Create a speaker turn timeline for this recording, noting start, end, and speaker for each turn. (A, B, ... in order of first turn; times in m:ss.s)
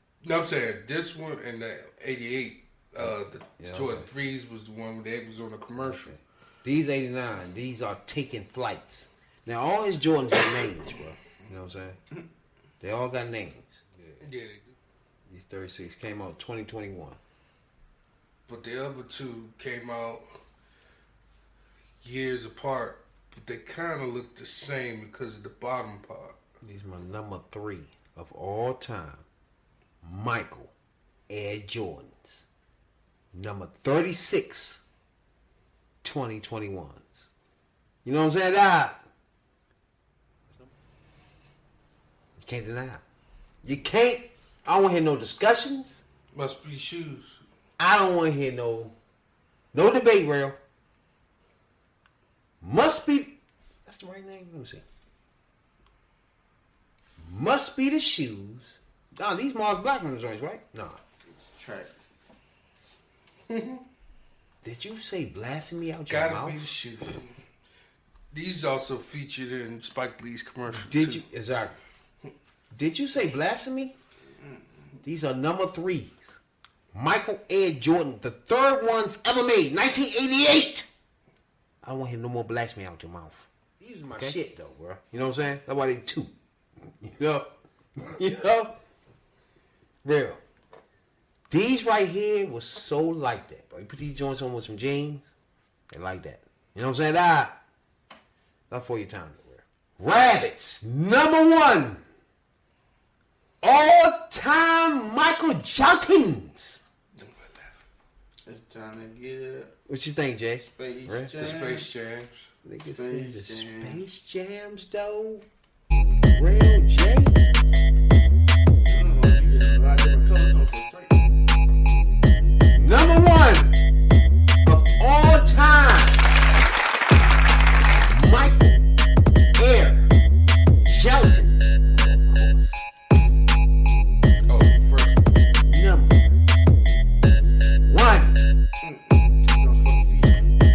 0:00.2-0:06.1 A
0:03.0-0:04.1 B
0:05.8-0:12.0 B
0:12.8-0:14.3 B
0:14.2-0:14.8 A
0:15.3-0:17.2 B
0:18.5-0:20.2 A
0:22.0-0:26.4 A
0:26.6-0:29.3 B
0:30.0-0:30.7 B
0:31.3-0:32.4 B
0:33.3-0:34.8 B
0:36.0-0:37.3 B
0:38.0-0:39.0 B
0:42.4-0:43.0 B
0:43.6-0:46.0 B
0:46.3-0:47.4 A
0:47.8-0:49.0 B
0:49.7-0:50.6 B
0:52.6-0:54.8 B
0:57.2-1:01.0 B
1:01.3-1:02.0 C
1:03.5-1:03.8 A
1:04.6-1:06.7 B
1:06.1-1:07.3 A
1:08.3-1:11.2 A
1:10.8-1:11.8 B
1:12.7-1:14.0 B
1:15.0-1:16.4 B
1:16.9-1:20.9 B
1:21.8-1:26.3 B
1:27.0-1:28.8 B
1:30.0-1:30.4 B
1:31.5-1:35.3 B
1:35.9-1:37.6 B
1:38.7-1:42.0 B
1:43.6-1:46.8 B
1:47.2-1:47.8 A
1:48.4-1:49.8 C
1:49.9-1:51.4 B
1:50.6-1:51.9 C
1:51.4-1:52.5 A
1:52.6-1:55.5 B
1:52.8-1:54.0 C
1:56.3-1:57.5 B
1:58.9-2:01.3 C
2:02.7-2:03.8 B
2:04.6-2:06.3 B
2:08.0-2:08.9 B
2:09.6-2:10.1 B
2:10.8-2:12.8 B
2:14.5-2:15.3 A
2:15.6-2:16.4 B
2:17.7-2:18.4 B
2:18.8-2:20.6 C